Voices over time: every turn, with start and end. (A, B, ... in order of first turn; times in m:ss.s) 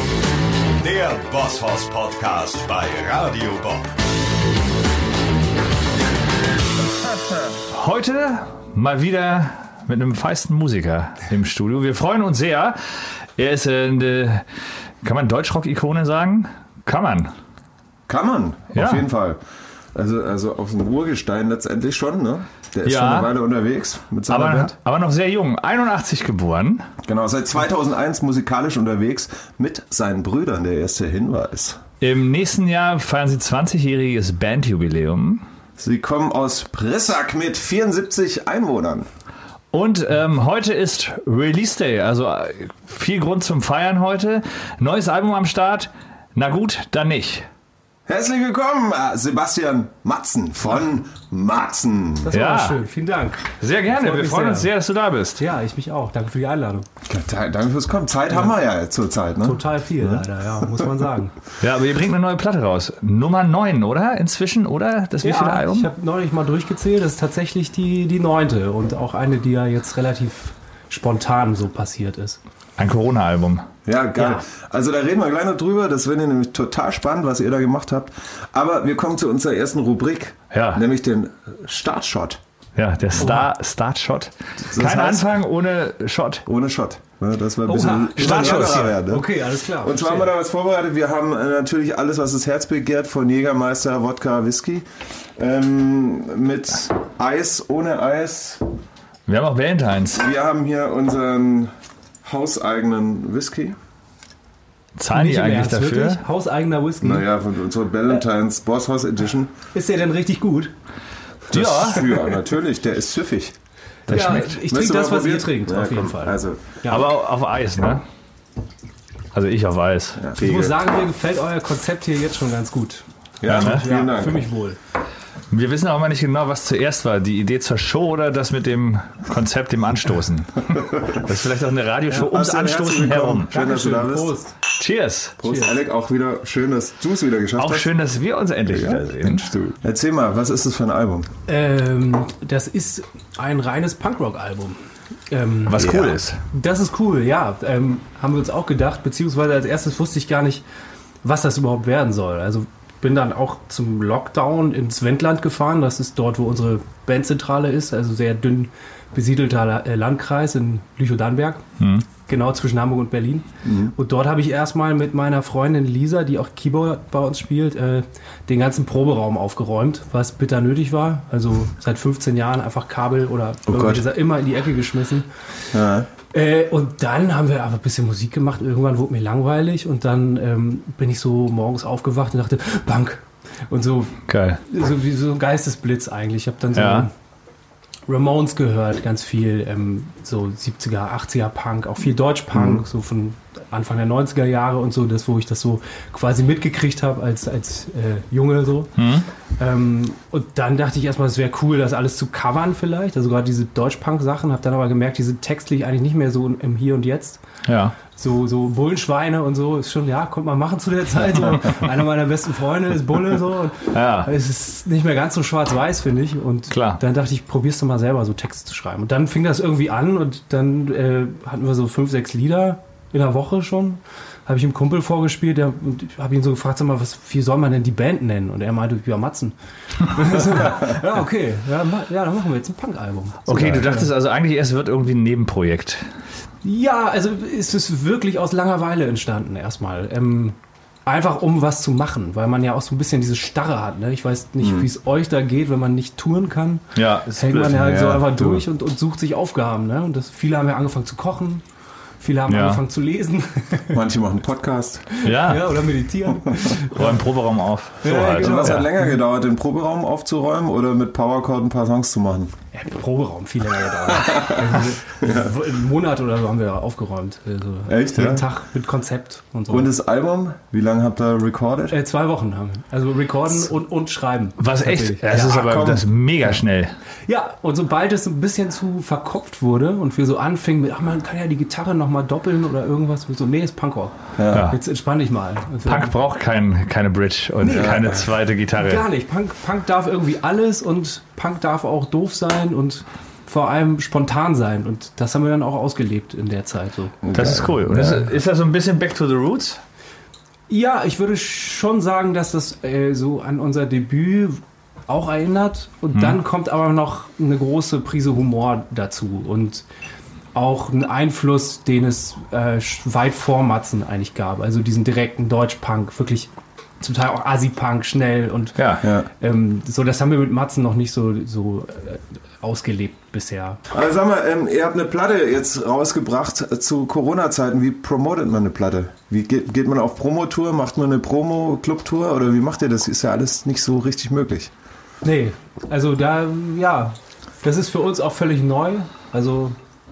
0:00.8-0:03.9 A
0:07.7-0:12.8 B
0:13.4-0:14.4 B
0:15.0-0:17.3 B
0:18.1-0:19.4 C
0:18.7-0:19.0 B
0:19.9-0:24.8 C
0:22.8-0:23.3 B
0:24.3-0:26.8 B
0:27.0-0:31.8 C
0:32.0-0:35.4 B
0:35.8-0:39.1 C
0:39.7-0:47.5 B
0:48.1-0:52.3 C
0:52.2-0:54.7 D
0:52.3-0:52.8 B
0:53.6-0:55.4 B
0:55.4-0:56.9 D
0:57.1-1:00.8 C
0:59.4-1:01.4 D
1:01.6-1:05.9 B
1:05.2-1:12.4 D
1:12.8-1:13.7 B
1:13.9-1:22.4 C
1:14.2-1:14.4 D
1:20.5-1:20.8 B
1:22.8-1:26.4 B
1:23.2-1:23.5 D
1:24.6-1:25.3 C
1:26.5-1:29.3 C
1:27.6-1:30.3 D
1:28.2-1:28.9 B
1:29.8-1:38.6 C
1:39.3-1:40.2 B
1:40.1-1:41.7 C
1:42.2-1:43.8 C
1:45.0-1:46.2 B
1:45.1-1:47.3 D
1:47.0-1:49.6 C
1:49.7-1:50.7 D
1:51.5-1:53.6 C
1:51.5-1:52.0 B
1:54.1-1:56.7 C
1:54.1-1:57.1 D
1:54.1-1:54.4 B
1:56.9-1:58.0 B
1:59.3-2:00.2 B
2:00.2-2:00.8 C
2:00.4-2:04.8 D
2:03.4-2:04.5 C
2:03.5-2:03.9 B
2:05.5-2:13.5 B
2:12.1-2:14.3 C
2:13.5-2:14.5 D
2:14.8-2:15.4 B
2:15.4-2:17.9 C
2:15.4-2:15.7 D
2:17.6-2:19.5 B
2:18.7-2:21.3 C
2:21.5-2:24.8 D
2:25.3-2:30.6 D
2:25.7-2:26.4 B
2:31.2-2:41.6 D
2:41.8-2:42.0 B
2:42.3-2:55.3 D
2:43.6-2:43.9 C
2:53.7-2:54.0 C
2:55.7-2:56.1 C
2:56.3-3:07.1 D
3:04.3-3:04.6 B
3:06.8-3:07.1 B
3:08.1-3:18.9 D
3:12.5-3:12.8 C
3:19.0-3:19.3 B
3:19.6-3:27.4 D
3:27.7-3:28.0 B
3:28.2-3:54.1 D
3:33.9-3:34.3 B
3:36.7-3:37.0 B
3:53.5-3:56.0 B
3:53.5-3:53.8 C
3:56.6-4:11.6 D
4:04.6-4:04.9 C
4:07.0-4:07.9 B
4:07.7-4:08.6 C
4:12.2-4:14.0 D
4:12.5-4:12.8 B
4:13.9-4:15.1 C
4:15.1-4:17.2 D
4:15.2-4:15.8 B
4:16.9-4:18.9 B
4:18.0-4:18.9 D
4:18.3-4:22.5 C
4:22.7-4:29.9 D
4:24.1-4:25.5 C
4:27.9-4:28.5 C
4:29.7-4:32.0 C
4:31.9-4:35.8 D
4:34.6-4:36.9 B
4:35.4-4:36.0 C
4:37.3-4:46.2 D
4:44.4-4:44.7 C
4:44.5-4:44.8 B
4:45.9-4:49.0 B
4:47.6-4:48.0 D
4:47.6-4:48.3 C
4:48.8-4:57.2 D
4:57.2-4:58.3 C
4:57.3-4:59.8 B
5:00.7-5:09.8 D
5:10.5-5:23.8 D
5:18.8-5:19.0 B
5:19.0-5:19.3 C
5:23.9-5:34.7 C
5:35.2-5:39.8 D